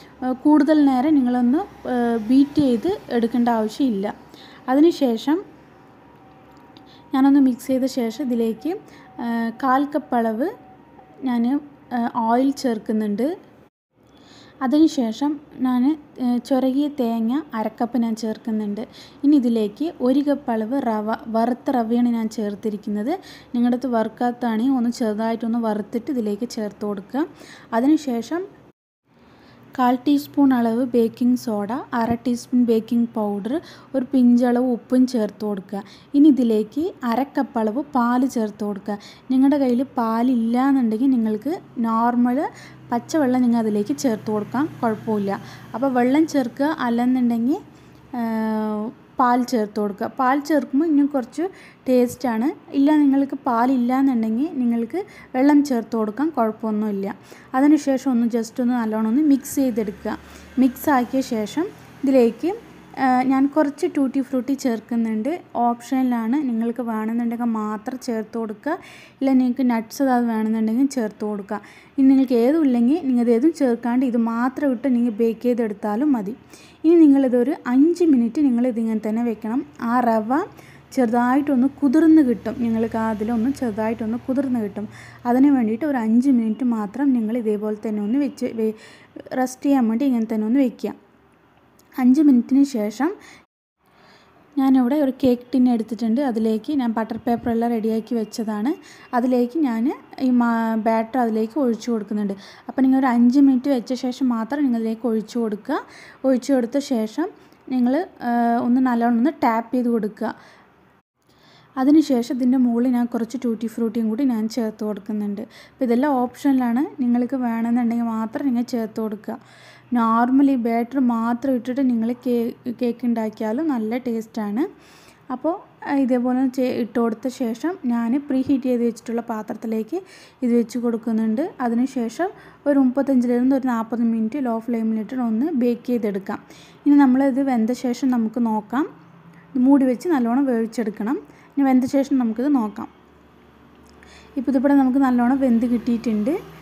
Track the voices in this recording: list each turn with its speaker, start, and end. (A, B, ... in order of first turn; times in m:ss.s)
0:00.3-0:04.1 A
0:04.7-0:05.4 A
0:07.1-0:10.5 A
0:11.3-0:13.3 A
0:14.6-0:28.4 A
0:29.8-0:47.6 A
0:48.2-1:28.8 A
1:29.4-1:31.0 A
1:32.0-1:33.1 A
1:34.6-1:50.3 A
1:51.8-1:59.4 A
1:59.9-2:04.7 A
2:05.3-2:18.9 A
2:19.6-2:22.9 A
2:24.4-2:26.4 A